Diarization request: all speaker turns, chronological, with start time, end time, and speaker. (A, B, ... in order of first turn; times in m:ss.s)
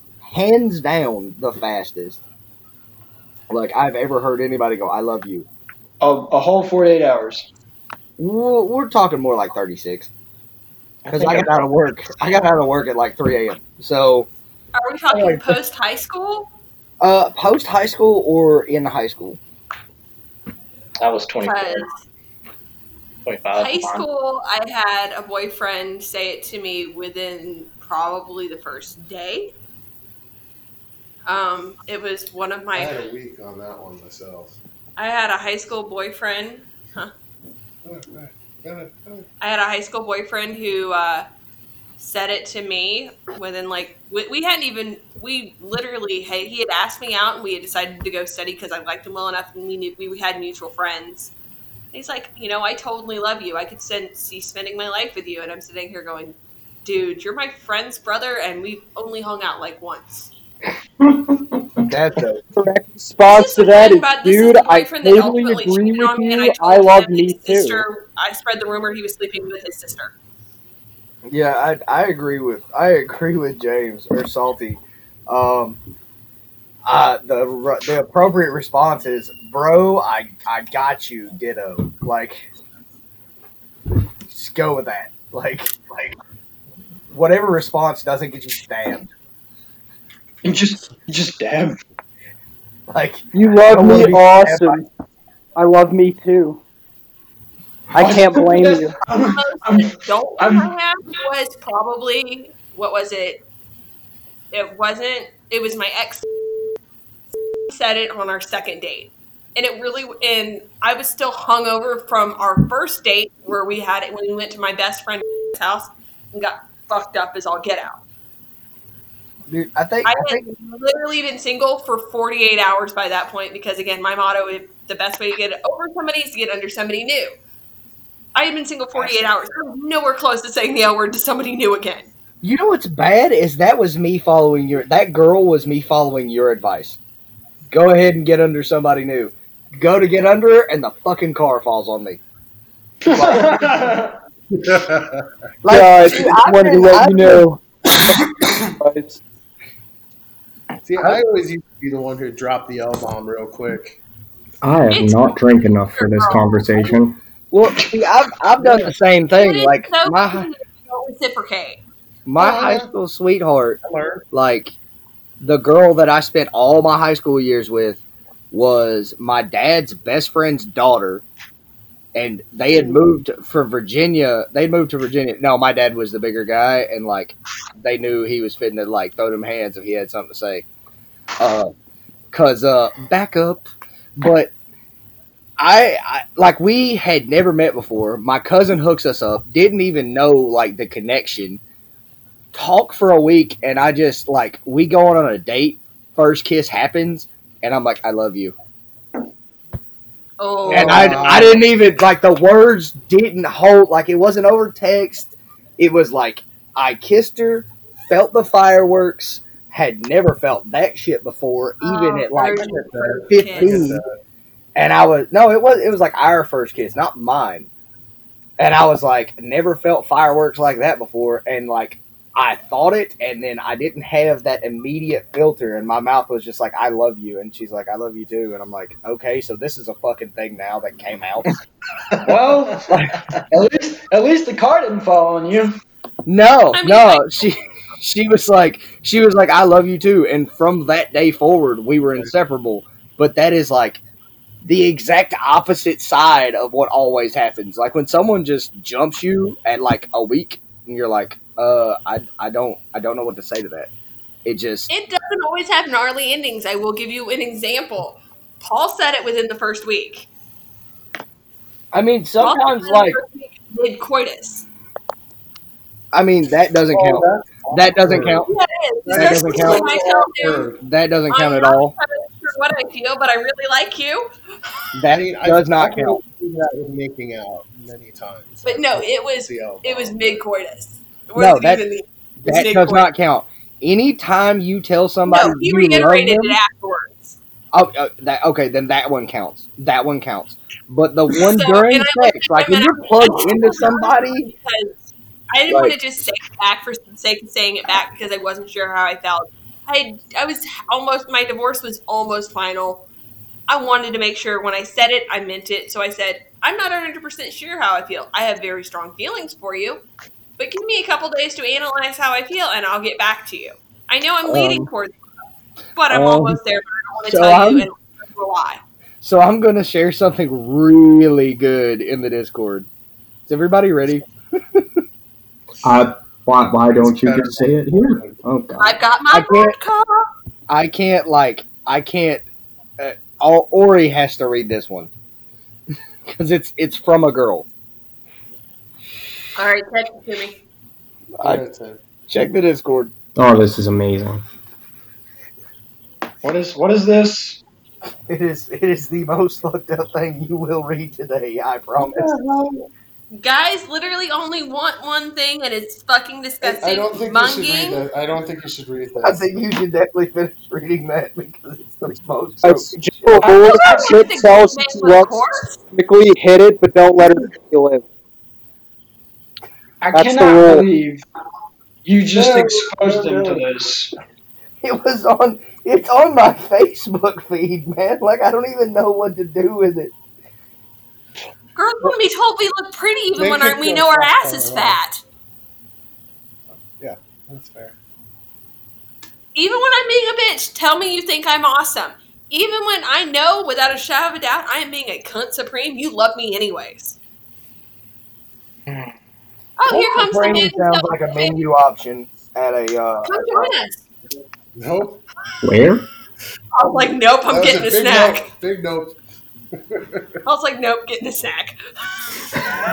0:00.2-0:02.2 A
0:03.5-0:05.5 A
0:06.0-0:07.5 B
0:08.2-0:10.1 A
0:11.0-0:14.3 A
0:11.1-0:11.4 C
0:14.7-0:16.5 D
0:17.0-0:19.4 A
0:21.0-0:21.9 C
0:21.4-0:22.0 D
0:23.2-0:24.0 C
0:23.6-0:29.5 D
0:31.3-0:33.0 D
0:32.7-0:34.6 E
0:35.0-0:37.1 D
0:37.8-0:39.3 E
0:39.4-0:41.3 D
0:42.0-0:51.3 D
0:51.9-1:00.3 D
1:01.8-1:02.4 A
1:02.5-1:07.8 F
1:03.2-1:10.1 D
1:11.2-1:15.8 A
1:16.8-1:22.5 A
1:24.3-1:26.2 A
1:27.1-1:29.1 A
1:30.4-1:31.8 B
1:32.9-1:34.8 A
1:33.3-1:34.9 F
1:35.6-1:36.6 F
1:37.9-1:39.0 F
1:38.0-1:40.7 B
1:39.3-1:43.4 D
1:44.5-1:46.2 D
1:47.7-1:58.0 D
1:59.5-2:00.4 A
2:00.0-2:07.3 D
2:08.4-2:12.1 D
2:09.0-2:09.2 A
2:12.4-2:17.0 A
2:17.7-2:22.2 A
2:23.0-2:24.1 B
2:23.1-2:23.7 A
2:23.6-2:23.9 E
2:24.5-2:25.3 E
2:25.6-2:27.4 A
2:25.6-2:27.6 F
2:28.8-2:29.2 F
2:30.8-2:34.0 E
2:34.6-2:37.2 G
2:34.9-2:35.4 D
2:35.9-2:36.9 D
2:37.5-2:40.5 A
2:38.6-2:38.9 E
2:39.3-2:41.8 D
2:42.2-2:44.7 A
2:42.4-2:42.9 E
2:43.8-2:44.2 E
2:45.4-2:51.2 A
2:52.1-3:00.6 A
3:01.4-3:01.7 A
3:02.3-3:04.5 A
3:05.6-3:11.6 A
3:12.5-3:18.5 A
3:20.4-3:21.5 D
3:20.7-3:21.6 E
3:20.7-3:34.0 A
3:31.8-3:34.0 D
3:32.5-3:34.2 E
3:34.8-3:37.7 A
3:38.6-3:51.4 A
3:52.2-3:55.7 B
3:52.9-3:53.2 A
3:56.2-4:04.0 A
3:56.7-3:57.3 D
4:04.6-4:13.9 A
4:14.4-4:14.9 A
4:14.9-4:20.3 D
4:21.9-4:23.2 A
4:22.4-4:24.6 D
4:26.1-4:28.5 A
4:26.9-4:28.5 E
4:28.5-4:30.7 D
4:29.0-4:30.8 E
4:29.1-4:29.9 A
4:30.8-4:31.9 A
4:31.3-4:34.3 D
4:34.9-4:36.2 A
4:35.1-4:40.4 E
4:38.6-4:43.1 D
4:41.4-4:41.8 A
4:42.4-4:46.6 A
4:45.2-4:47.4 D
4:47.7-4:54.5 A
4:51.4-5:03.0 D
4:55.7-4:56.0 A
5:03.7-5:10.0 D
5:10.6-5:15.3 D
5:14.4-5:14.9 A
5:16.0-5:18.8 D
5:16.1-5:16.6 A
5:17.2-5:17.9 A
5:19.2-5:22.9 A
5:23.5-5:24.8 A
5:25.8-5:28.2 G
5:27.0-5:28.4 E
5:28.4-5:29.8 A
5:28.8-5:30.3 D
5:30.7-5:32.4 A
5:33.0-5:35.1 A
5:36.3-5:37.6 A
5:39.6-5:40.6 D
5:41.4-5:42.0 E
5:42.3-5:43.1 A
5:43.4-5:44.4 G
5:46.4-5:47.6 B
5:48.3-5:52.3 A
5:52.1-5:52.9 E
5:53.3-5:58.0 D
5:56.6-5:59.4 E
5:59.2-6:03.4 A
6:02.6-6:08.0 F
6:03.4-6:04.3 B
6:03.6-6:05.8 D
6:10.0-6:11.2 B
6:10.1-6:10.9 F
6:12.0-6:14.1 B
6:12.3-6:13.9 E
6:14.8-6:20.1 A
6:21.8-6:25.2 D
6:23.4-6:25.0 E
6:27.0-6:27.9 E
6:29.5-6:37.2 D
6:39.8-6:41.6 D
6:39.9-6:43.7 A
6:43.2-6:44.0 D
6:44.8-6:45.2 E
6:45.6-6:46.0 G
6:46.7-6:48.5 D
6:46.8-6:49.1 E
6:49.8-6:50.3 E
6:50.4-6:51.8 D